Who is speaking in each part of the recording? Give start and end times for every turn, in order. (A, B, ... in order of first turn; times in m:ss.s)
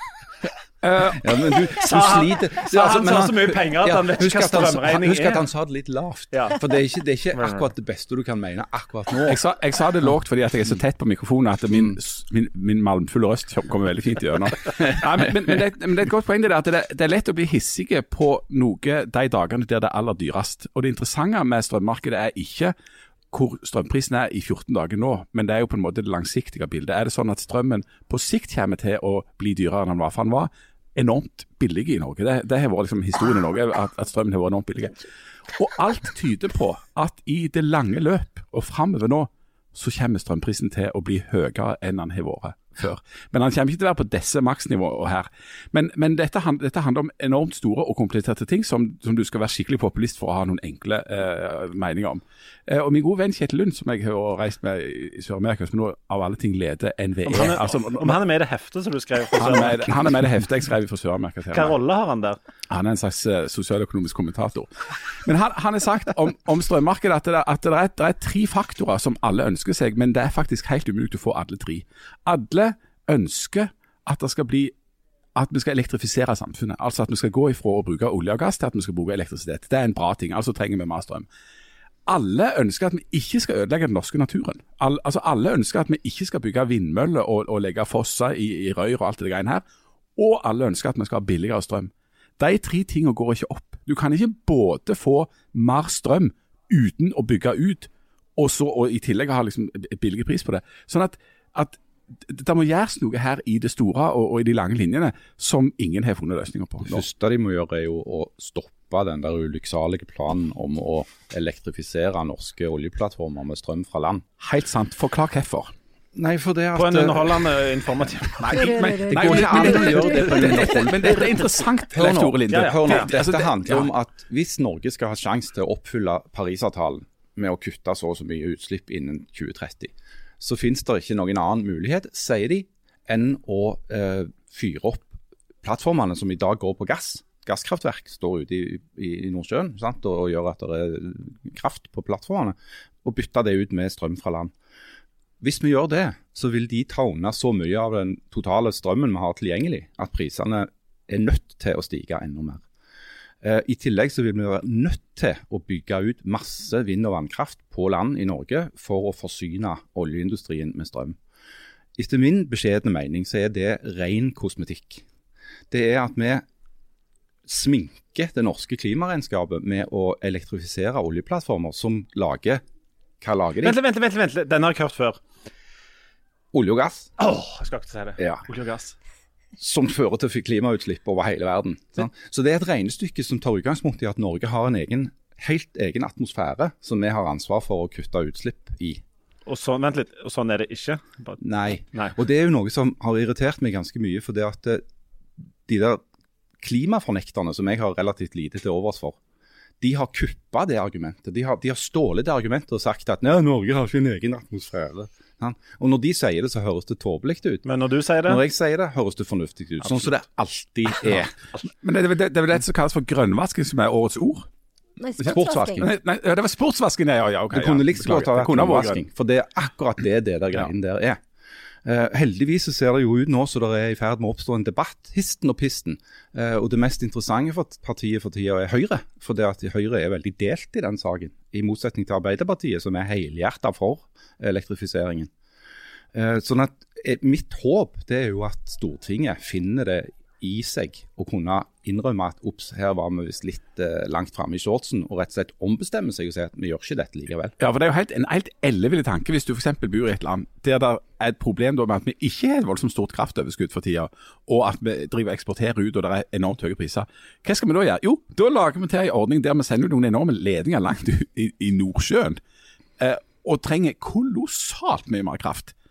0:00.8-0:01.3 A
0:01.2-0:09.4 B
0:01.8-0:05.4 C
0:06.3-0:06.6 C
0:07.3-0:07.7 C
0:09.2-0:22.7 A
0:23.3-0:58.2 A
0:57.2-1:00.0 C
0:59.4-1:01.7 A
1:01.5-1:02.4 C
1:02.7-1:14.7 A
1:15.3-1:21.3 A
1:22.1-1:29.6 A
1:30.2-1:47.0 A
1:46.8-1:54.2 B
1:54.4-1:55.7 A
1:56.1-1:57.5 B
1:56.8-1:58.7 C
1:58.4-2:03.9 A
1:58.5-2:00.9 D
1:59.0-2:24.5 B
2:02.5-2:03.1 C
2:25.4-2:32.6 B
2:33.4-2:41.2 B
2:42.0-2:45.0 B
2:45.7-2:46.4 B
2:47.4-2:52.6 B
2:53.2-2:53.8 B
2:53.6-2:55.2 C
2:56.5-2:57.1 B
2:57.2-2:59.0 C
2:58.2-2:58.4 B
2:59.6-3:09.0 B
3:09.4-3:11.4 C
3:11.4-3:14.8 B
3:15.6-3:16.0 B
3:16.6-3:19.2 B
3:19.8-3:27.6 B
3:27.6-3:28.4 C
3:28.2-3:31.3 B
3:31.1-3:34.5 A
3:35.0-3:35.9 D
3:35.2-3:35.9 B
3:35.2-3:39.0 A
3:37.5-3:41.2 B
3:41.8-3:55.3 B
3:56.1-4:07.5 B
4:07.6-4:22.4 A
4:23.0-4:25.7 A